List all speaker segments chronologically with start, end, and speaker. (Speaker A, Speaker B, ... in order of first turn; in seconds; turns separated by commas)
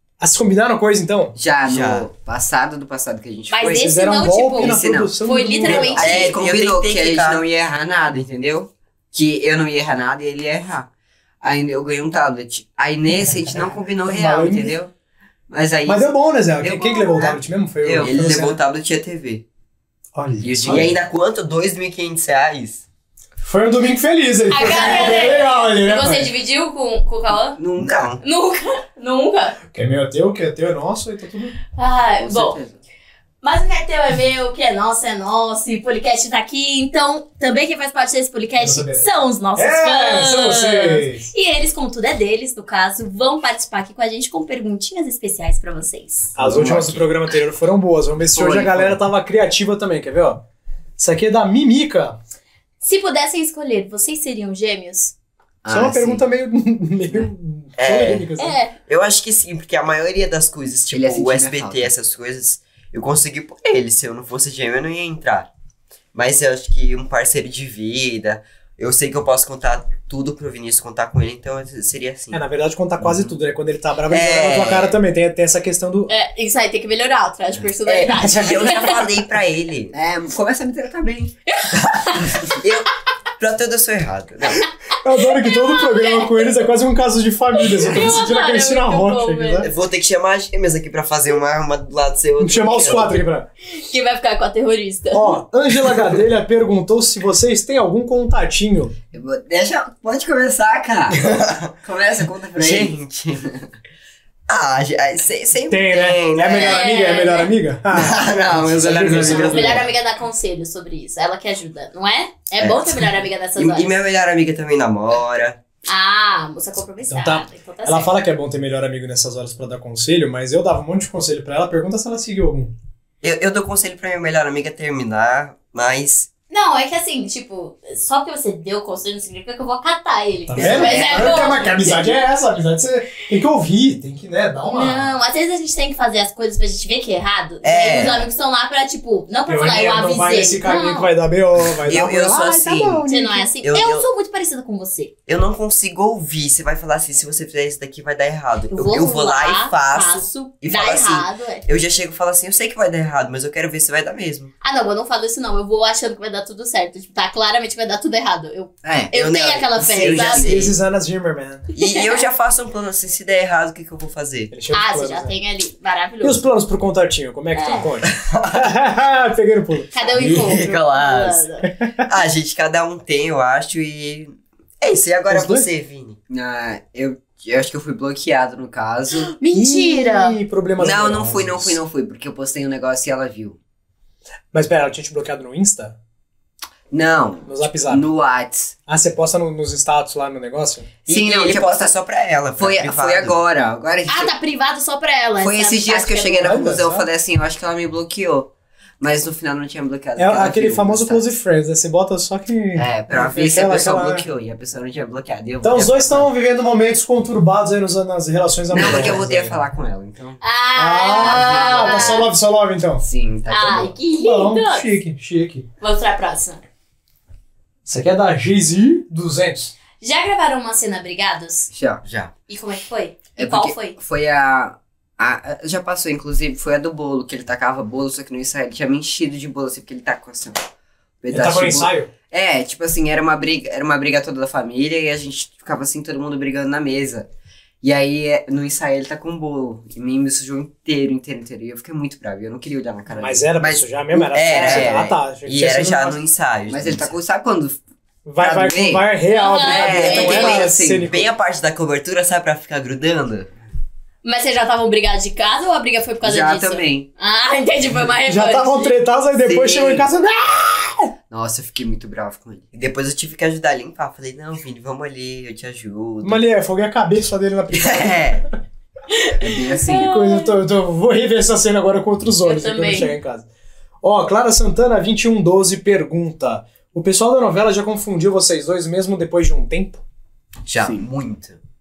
Speaker A: 0.2-1.3, Speaker B: 1.4-10.9, Speaker C: 1.6-2.1, Speaker D: 3.5-6.3, Speaker A: 3.6-6.1, Speaker C: 6.0-7.4, Speaker B: 11.4-14.9, Speaker A: 13.2-14.8, Speaker B: 15.5-18.1, Speaker A: 15.8-18.6, Speaker C: 18.0-19.4, Speaker A: 20.1-20.9, Speaker B: 20.4-21.0, Speaker C: 20.6-22.8, Speaker A: 23.4-26.3, Speaker D: 24.5-27.6, Speaker B: 27.6-28.1, Speaker C: 27.8-28.2, Speaker D: 28.2-29.6, Speaker A: 29.7-31.6, Speaker D: 31.7-32.6, Speaker B: 32.2-32.8, Speaker D: 33.4-46.3, Speaker A: 38.6-41.2, Speaker A: 46.4-50.4, Speaker B: 46.4-47.1, Speaker B: 48.3-49.0, Speaker A: 51.0-52.2, Speaker D: 52.8-55.1, Speaker B: 55.6-56.2, Speaker A: 55.7-58.6, Speaker C: 57.8-65.5, Speaker D: 58.4-58.7, Speaker B: 60.9-61.9, Speaker C: 66.1-72.4, Speaker A: 72.3-76.1, Speaker C: 74.1-75.0, Speaker D: 76.1-79.0, Speaker C: 77.8-79.9, Speaker B: 79.9-81.3, Speaker D: 81.5-82.4, Speaker C: 82.2-84.7, Speaker A: 85.0-89.7, Speaker D: 85.2-86.5, Speaker D: 87.6-89.7, Speaker C: 89.6-93.2, Speaker A: 92.4-93.5, Speaker D: 93.7-95.4, Speaker A: 95.1-98.9, Speaker B: 99.1-101.2, Speaker C: 101.1-101.7, Speaker B: 101.8-102.9, Speaker C: 102.5-103.4, Speaker C: 104.5-106.8, Speaker A: 105.7-109.8, Speaker D: 106.5-107.5, Speaker C: 107.9-109.8, Speaker D: 109.4-113.9, Speaker C: 112.6-115.6, Speaker D: 115.8-118.1, Speaker A: 117.1-122.7, Speaker C: 123.2-126.3, Speaker D: 126.5-132.2, Speaker A: 130.5-135.1, Speaker C: 130.6-131.4, Speaker D: 134.7-141.1, Speaker C: 137.6-138.3, Speaker A: 139.5-143.5, Speaker C: 141.8-143.0, Speaker B: 141.8-142.4, Speaker D: 143.1-145.1, Speaker C: 143.6-144.1, Speaker C: 145.3-154.5, Speaker D: 148.7-151.6, Speaker D: 154.6-160.5, Speaker B: 158.8-159.1, Speaker C: 159.1-160.7, Speaker B: 160.0-160.6, Speaker A: 160.4-161.6, Speaker C: 161.7-164.5, Speaker A: 164.5-165.3, Speaker D: 164.7-166.4, Speaker A: 166.2-170.6, Speaker D: 167.6-167.9, Speaker C: 168.0-168.7, Speaker D: 169.9-171.7, Speaker C: 170.2-171.5, Speaker A: 171.7-171.9, Speaker C: 172.0-176.2, Speaker A: 175.3-175.7, Speaker B: 176.3-179.3, Speaker D: 179.2-180.3, Speaker A: 179.5-181.8, Speaker B: 180.8-183.6, Speaker A: 184.5-186.0, Speaker B: 186.9-188.7, Speaker A: 187.4-188.0, Speaker A: 188.9-190.9, Speaker C: 191.1-193.3, Speaker B: 191.1-191.9, Speaker B: 192.6-194.3, Speaker D: 194.1-196.6, Speaker B: 195.4-198.5, Speaker A: 196.4-197.1, Speaker B: 199.0-201.2, Speaker A: 200.2-204.2, Speaker B: 202.8-206.3, Speaker A: 205.6-209.6, Speaker B: 208.7-210.4, Speaker D: 210.4-212.3, Speaker A: 210.8-213.0, Speaker B: 211.1-212.3, Speaker B: 213.0-214.0, Speaker D: 213.5-214.9, Speaker A: 213.7-215.7, Speaker D: 215.8-216.6, Speaker A: 217.8-219.7, Speaker D: 220.0-221.7, Speaker B: 221.7-222.0, Speaker C: 222.0-222.3, Speaker D: 222.5-224.0, Speaker B: 223.4-230.6, Speaker B: 231.2-237.2, Speaker A: 231.3-232.1, Speaker B: 237.8-243.7, Speaker A: 243.1-246.2, Speaker C: 243.6-247.1, Speaker B: 244.4-244.9, Speaker B: 246.7-247.8, Speaker A: 248.2-251.3, Speaker B: 248.4-249.1, Speaker D: 249.3-250.6, Speaker B: 249.6-251.1, Speaker C: 250.1-253.5, Speaker D: 254.2-259.0, Speaker B: 256.2-257.1, Speaker A: 258.2-261.1, Speaker B: 259.4-260.1, Speaker B: 261.3-262.6, Speaker C: 262.7-266.4, Speaker A: 266.2-268.5, Speaker C: 267.7-268.4, Speaker D: 269.1-270.5, Speaker B: 269.4-270.1, Speaker A: 269.9-273.5, Speaker D: 272.4-273.1, Speaker A: 274.0-280.0, Speaker C: 280.6-281.6